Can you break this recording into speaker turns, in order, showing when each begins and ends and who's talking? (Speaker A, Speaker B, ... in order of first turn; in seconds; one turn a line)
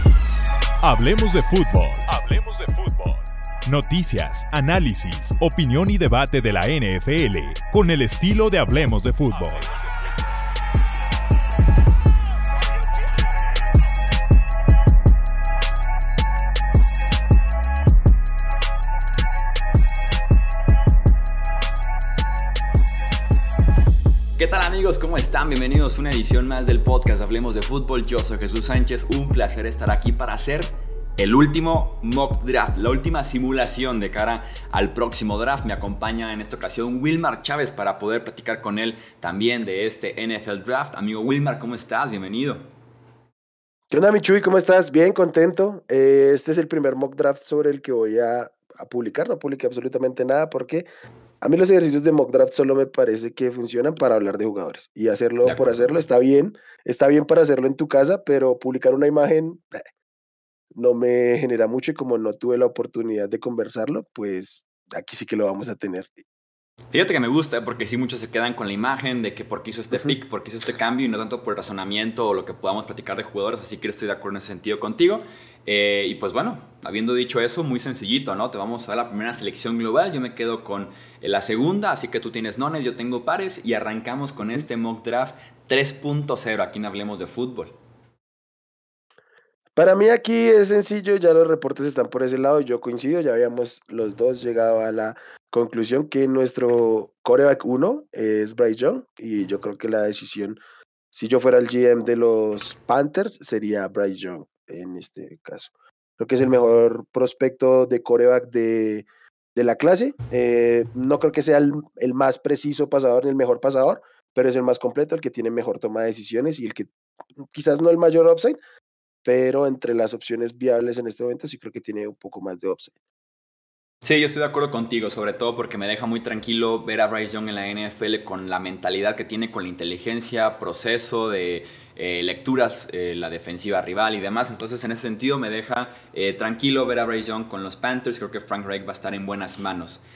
Speaker A: 0.8-9.8
Speaker B: 24.4-42.6
Speaker C: 43.9-50.9
Speaker C: 51.4-59.8
Speaker B: 55.4-55.9
Speaker C: 60.7-66.2
Speaker B: 66.9-87.7
Speaker C: 89.8-100.6
Speaker C: 101.1-118.6
Speaker C: 119.2-122.9
Speaker B: 124.0-140.0